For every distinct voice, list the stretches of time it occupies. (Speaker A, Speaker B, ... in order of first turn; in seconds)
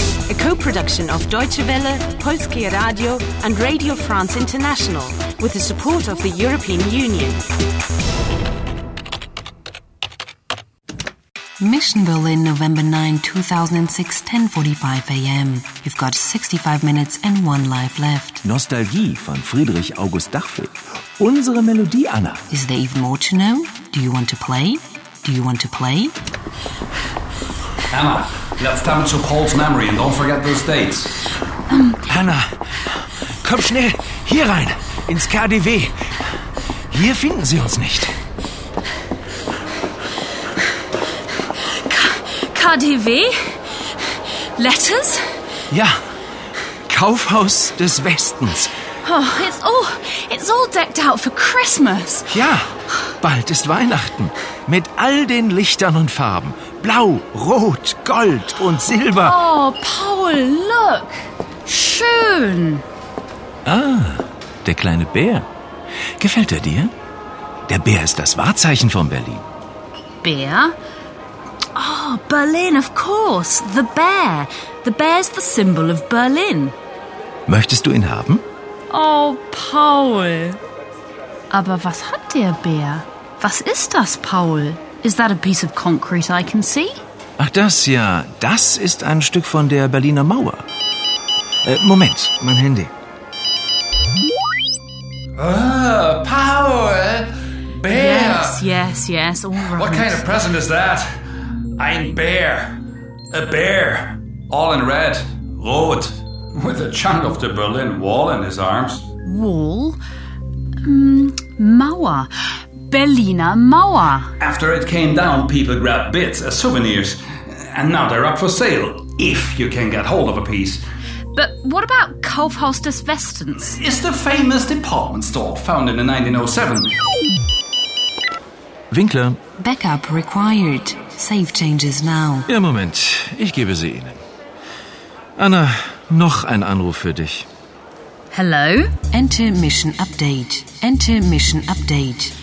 Speaker A: 0.3-7.5
Speaker B: 11.6-18.4, 22.5-26.1, 129.6-132.5, 139.1-142.3
Speaker C: 18.4-22.4, 32.1-36.0, 36.9-38.1, 45.7-46.0, 46.9-48.7, 52.3-59.4, 63.6-65.5, 66.2-66.9, 67.7-69.4, 77.5-78.4, 87.4-90.6, 91.6-92.9, 128.9-129.4, 132.5-134.2, 135.4-137.4
Speaker D: 27.9-31.1, 95.4-98.6, 99.7-101.1, 101.8-102.8, 103.3-109.0, 114.4-120.8, 123.6-126.9
Speaker E: 31.7-32.0, 41.7-43.3, 44.5-45.2, 49.0-52.3, 59.2-62.8, 70.2-70.7, 71.7-76.7, 78.9-80.6, 81.5-86.9, 97.9-100.2, 109.2-110.0, 110.8-112.3, 112.8-114.3, 121.3-123.8, 138.3-138.9